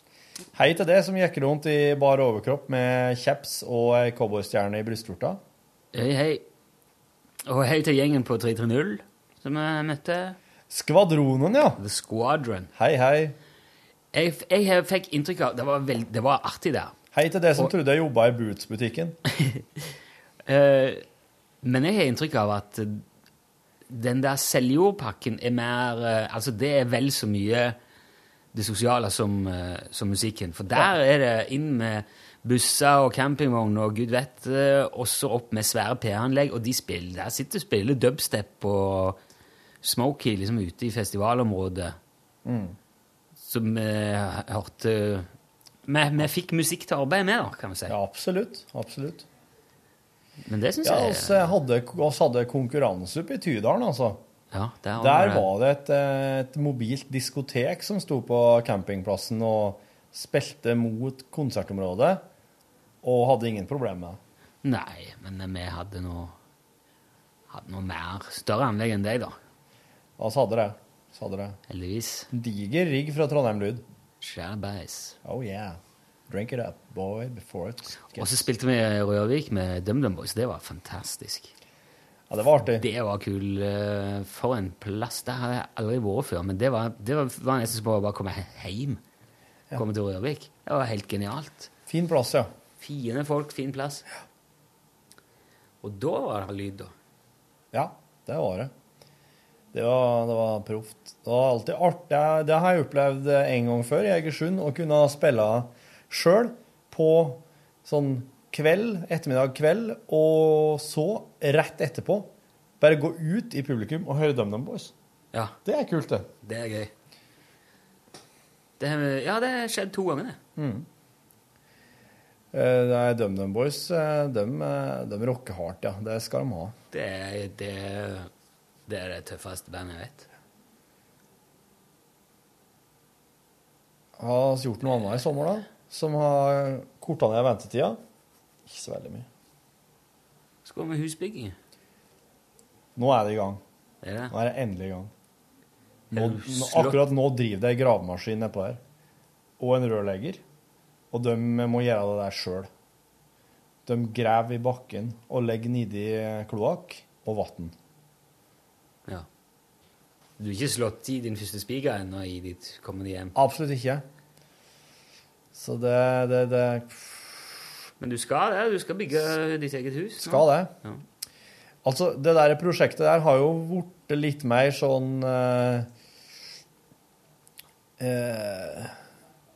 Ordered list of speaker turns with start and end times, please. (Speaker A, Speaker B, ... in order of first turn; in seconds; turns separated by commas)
Speaker A: 0.6-5.4, Speaker B: 5.9-6.4, Speaker B: 7.5-10.4, Speaker A: 10.7-11.8, Speaker B: 11.8-12.7, Speaker A: 12.8-13.4, Speaker B: 14.1-16.9, Speaker A: 17.1-19.2, Speaker B: 20.5-21.0, Speaker B: 21.6-23.0, Speaker B: 23.9-27.8, Speaker B: 28.5-39.2, Speaker B: 39.8-42.0, Speaker A: 42.5-42.8, Speaker B: 43.4-45.3, Speaker B: 45.9-47.9, Speaker A: 47.9-49.3, Speaker B: 50.5-51.5, Speaker A: 50.8-54.2, Speaker B: 54.5-55.5, Speaker A: 55.0-62.2, Speaker A: 63.0-64.2, Speaker B: 64.6-66.4, Speaker B: 67.5-69.4, Speaker A: 70.2-71.6, Speaker B: 71.7-72.3, Speaker A: 72.3-73.8, Speaker B: 74.2-75.2, Speaker A: 75.2-75.8, Speaker A: 76.3-78.5, Speaker B: 78.1-81.5, Speaker A: 82.3-82.8, Speaker B: 82.7-89.0, Speaker B: 89.7-91.7, Speaker A: 91.9-92.5, Speaker B: 92.8-94.0, Speaker B: 95.8-96.9, Speaker A: 97.7-98.7, Speaker A: 99.7-112.3, Speaker A: 112.8-114.9, Speaker B: 115.3-115.6, Speaker A: 115.7-116.3, Speaker B: 116.4-116.9, Speaker B: 118.8-120.4, Speaker A: 120.6-120.9, Speaker A: 122.5-126.8, Speaker B: 126.9-128.3, Speaker B: 128.9-130.3, Speaker A: 134.2-138.0, Speaker A: 138.7-139.3, Speaker B: 140.7-141.6, Speaker A: 143.0-143.6, Speaker B: 144.0-144.3, Speaker A: 144.3-145.1, Speaker B: 146.1-147.1, Speaker A: 146.1-148.8, Speaker A: 149.6-150.4, Speaker A: 151.1-152.7, Speaker A: 153.9-157.8, Speaker B: 160.4-163.4, Speaker A: 163.3-164.0, Speaker A: 165.5-167.4, Speaker B: 168.0-171.0, Speaker A: 170.2-170.7, Speaker A: 171.8-175.9, Speaker A: 178.0-178.9